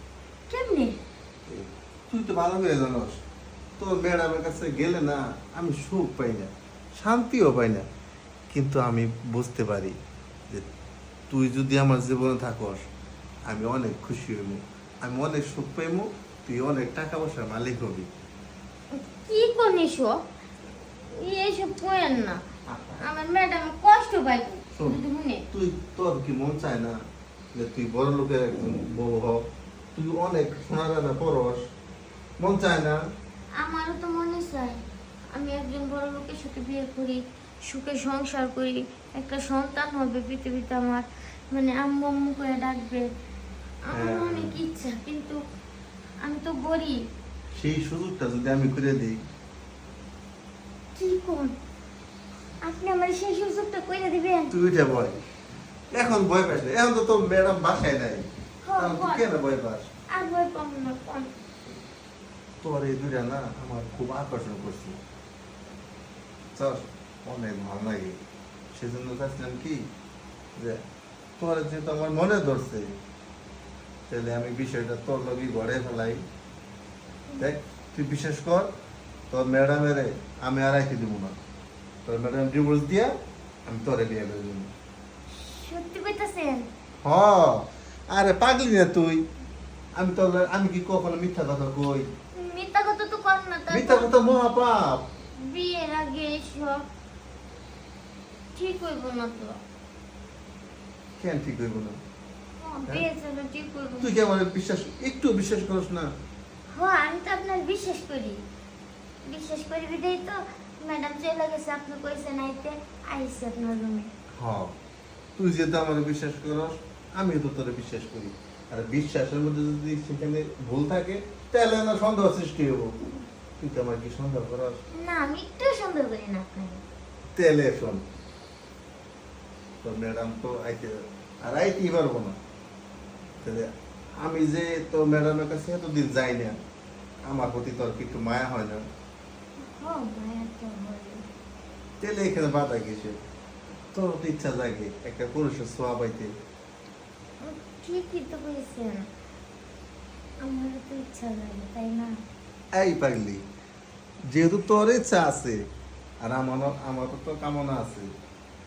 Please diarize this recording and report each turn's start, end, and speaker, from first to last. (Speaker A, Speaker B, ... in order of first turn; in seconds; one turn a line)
Speaker A: 0.5-1.0
Speaker B: 1.5-3.2
Speaker B: 3.8-7.8
Speaker B: 8.5-10.0
Speaker B: 11.3-12.8
Speaker B: 13.5-18.1
Speaker A: 18.9-20.2
Speaker A: 21.0-22.4
Speaker B: 22.7-23.0
Speaker A: 23.0-25.5
Speaker B: 24.8-25.0
Speaker B: 25.5-27.0
Speaker B: 27.6-29.4
Speaker B: 29.9-31.6
Speaker B: 32.4-33.0
Speaker A: 33.6-34.8
Speaker A: 35.3-43.1
Speaker A: 43.8-45.4
Speaker B: 43.9-44.6
Speaker A: 46.2-47.0
Speaker B: 47.5-49.2
Speaker A: 51.0-51.5
Speaker A: 52.6-54.5
Speaker B: 54.5-55.2
Speaker B: 55.9-58.2
Speaker A: 58.6-59.2
Speaker B: 58.8-59.9
Speaker A: 60.1-61.3
Speaker B: 62.6-65.0
Speaker B: 66.5-68.2
Speaker B: 68.7-69.9
Speaker B: 70.6-70.8
Speaker B: 71.4-72.9
Speaker B: 74.1-76.2
Speaker B: 77.4-78.7
Speaker B: 79.3-81.4
Speaker B: 82.1-83.2
Speaker B: 83.7-84.7
Speaker A: 85.3-86.7
Speaker B: 87.0-89.2
Speaker B: 90.0-92.1
Speaker A: 92.3-94.1
Speaker B: 93.7-95.0
Speaker A: 95.3-96.8
Speaker A: 98.5-99.6
Speaker B: 101.2-102.0
Speaker A: 102.6-104.2
Speaker B: 104.0-106.1
Speaker A: 106.7-108.4
Speaker A: 109.2-114.1
Speaker B: 114.4-114.8
Speaker B: 115.4-122.9
Speaker B: 123.6-124.8
Speaker A: 124.9-126.8
Speaker B: 127.3-128.0
Speaker B: 129.8-132.4
Speaker B: 133.4-136.6
Speaker B: 137.2-138.9
Speaker A: 139.6-141.2
Speaker B: 142.0-143.2
Speaker B: 143.9-146.3
Speaker A: 147.4-149.0
Speaker A: 150.4-152.1
Speaker B: 152.8-153.4
Speaker B: 154.3-155.6
Speaker B: 156.2-158.1